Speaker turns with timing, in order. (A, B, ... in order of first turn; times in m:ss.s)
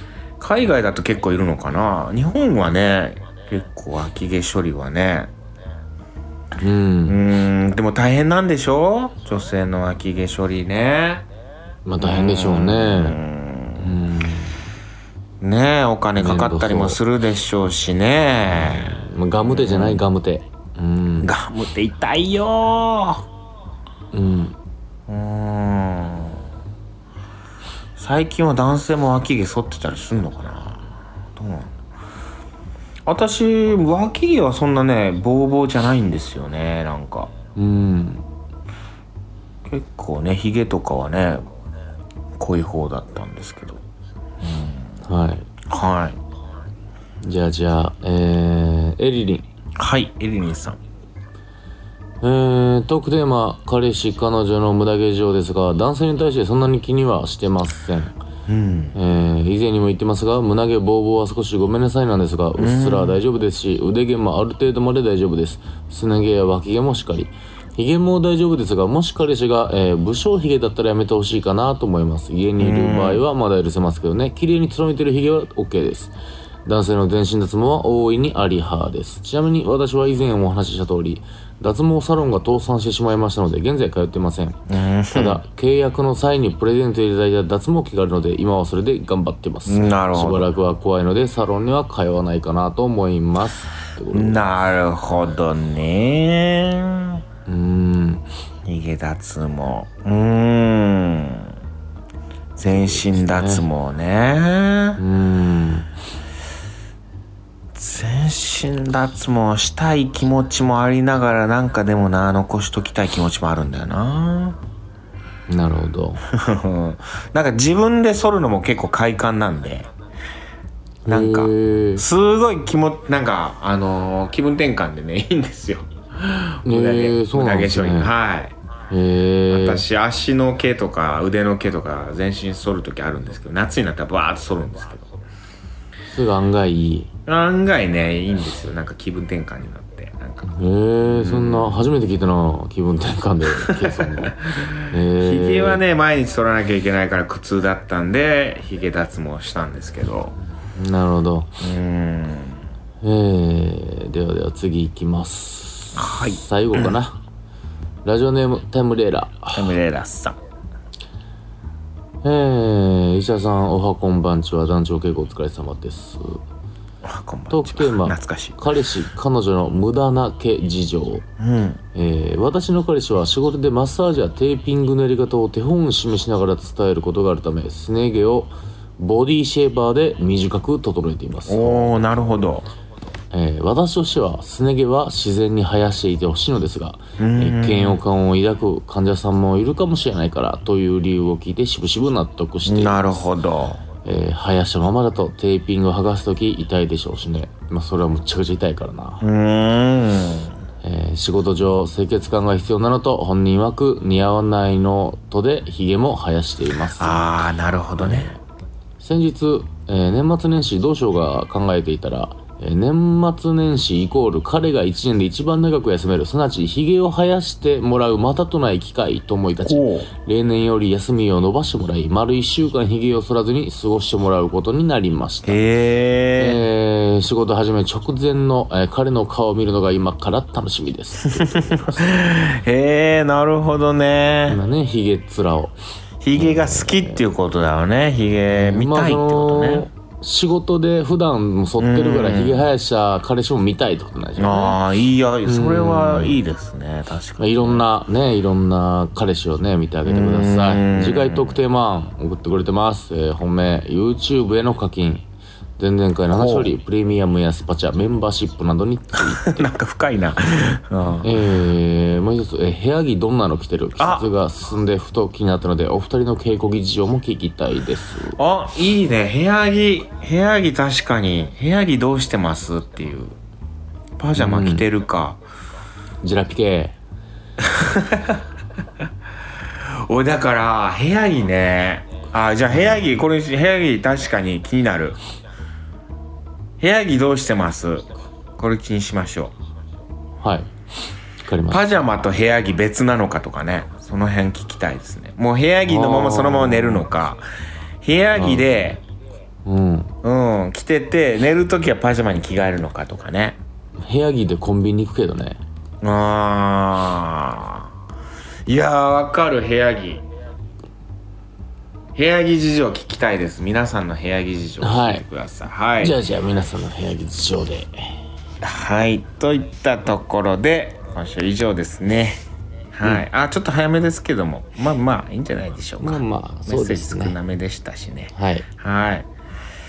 0:00.4-0:05.3 A
0:06.6-0:07.2 B
0:07.1-0:11.3 A
0:11.9-0:13.2 B
0:12.0-0:14.0 A
0:13.8-0:14.6 B
0:15.4-0:20.1 A
0:16.2-0:17.0 B
0:18.6-0:21.3 B
0:21.2-0:23.3 A
0:24.1-0:24.6 B
0:25.1-0:26.4 A
0:28.0-0:31.8 A
0:33.1-0:37.3 A
0:37.6-0:38.3 B
0:39.7-0:41.5 A
0:42.4-0:43.8 A
0:44.4-0:45.0 A
0:45.0-0:45.5 B
0:45.6-0:46.2 A
0:47.2-0:49.5 B
0:49.8-0:50.8 A
0:52.2-0:58.2 B
0:58.5-0:59.0 A
0:59.0-1:16.1 B
1:02.6-1:03.2 A
1:12.6-1:13.2 A
1:16.6-1:24.6 B
1:24.7-1:25.4 A
1:25.1-1:34.4 B
1:29.7-1:30.5 A
1:34.1-1:37.2 A
1:37.5-1:38.3 B
1:38.6-1:41.5 A
1:42.6-1:45.0 A
1:42.7-1:43.7 B
1:45.0-1:45.9 B
1:47.8-1:54.6 A
1:55.5-1:56.2 B
1:56.3-1:59.9 A
2:01.1-2:02.0 B
2:01.1-2:08.6 A
2:06.6-2:08.1 B
2:08.9-2:09.8 B
2:09.5-2:15.1 A
2:16.1-2:17.1 B
2:17.3-2:21.9 A
2:20.4-2:25.8 B
2:23.5-2:30.4 A
2:30.7-2:31.5 B
2:31.6-2:32.6 A
2:33.0-2:37.2 B
2:36.0-2:36.9 A
2:38.0-2:39.8 B
2:39.5-2:40.4 A
2:42.2-2:46.4 B
2:47.0-2:48.7 A
2:47.5-2:51.3 B
2:51.4-2:51.8 A
2:51.9-3:02.0 B
3:01.5-3:02.7 A
3:03.3-3:13.2 B
3:07.2-3:08.0 A
3:12.7-3:13.8 A
3:14.0-3:19.3 B
3:19.2-3:20.5 A
3:20.8-3:27.3 B
3:27.0-3:28.3 A
3:28.0-3:28.4 B
3:29.0-3:45.6 B
3:39.6-3:40.1 A
3:45.4-3:46.6 A
3:46.4-3:52.3 B
3:51.3-3:54.6 A
3:54.5-3:55.8 B
3:56.2-3:59.9 A
3:56.4-3:57.2 B
3:58.5-4:04.8 B
4:01.8-4:02.7 A
4:04.4-4:07.8 A
4:05.4-4:06.4 B
4:07.4-4:15.2 B
4:10.1-4:11.6 A
4:15.8-4:19.7 B
4:16.3-4:16.7 A
4:19.2-4:21.3 A
4:21.2-4:28.4 B
4:24.0-4:24.3 A
4:28.4-4:33.4 A
4:34.2-4:35.4 A
4:34.4-4:34.9 B
4:36.2-4:37.0 B
4:37.6-4:38.4 A
4:39.8-4:45.2 A
4:46.8-4:49.6 A
4:50.4-4:50.7 B
4:51.4-4:51.9 B
4:51.7-4:57.5 A
4:55.9-4:57.1 B
4:58.0-4:59.0 A
4:58.4-4:58.8 B
4:59.6-5:00.2 B
5:00.2-5:03.6 A
5:04.0-5:05.6 B
5:06.0-5:07.9 A
5:08.7-5:10.2 A
5:12.2-5:16.2 A
5:14.8-5:15.2 B
5:16.0-5:18.2 B
5:18.6-5:22.4 A
5:22.9-5:29.3 A
5:26.0-5:27.4 B
5:28.3-5:28.7 B